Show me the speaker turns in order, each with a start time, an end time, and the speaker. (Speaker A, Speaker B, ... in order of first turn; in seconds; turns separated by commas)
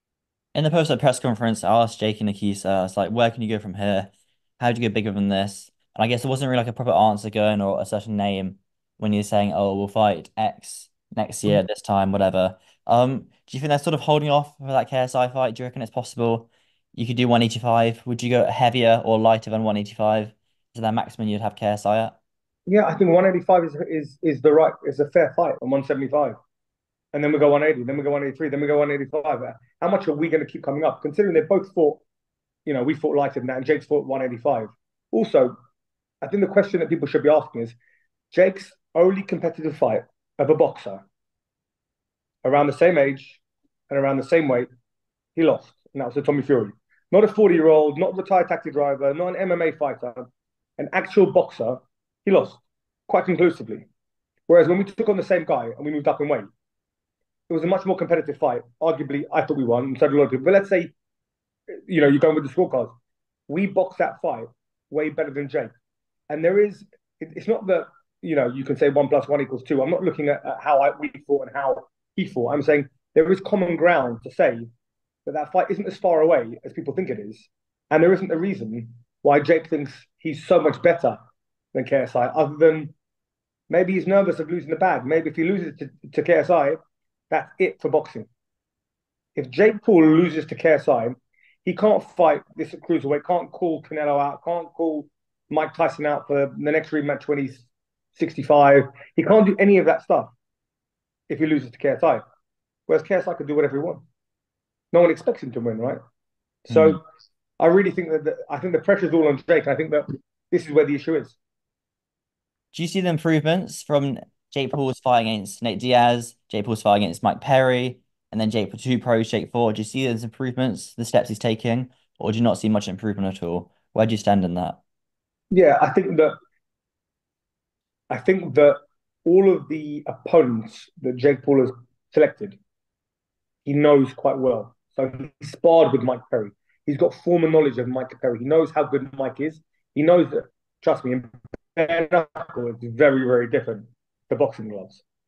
Speaker A: 0.5-22.1, Speaker B: 22.7-26.4, Speaker B: 27.1-32.0, Speaker B: 32.6-35.5, Speaker B: 36.2-37.8, Speaker B: 38.3-41.0, Speaker B: 42.4-44.7, Speaker B: 45.4-50.2, Speaker B: 50.8-53.9, Speaker B: 54.5-56.5, Speaker B: 57.5-60.9, Speaker B: 61.9-62.9, Speaker B: 63.5-65.7, Speaker B: 66.3-74.7, Speaker B: 75.2-81.2, Speaker B: 81.7-82.9, Speaker B: 83.7-86.8, Speaker B: 87.3-88.3, Speaker B: 89.3-100.3, Speaker B: 101.3-102.2, Speaker B: 102.9-104.0, Speaker B: 104.9-106.0, Speaker B: 106.6-107.0, Speaker A: 106.7-107.0, Speaker B: 107.6-111.4, Speaker A: 112.7-124.8, Speaker B: 125.5-126.3, Speaker B: 128.1-132.6, Speaker B: 133.6-145.0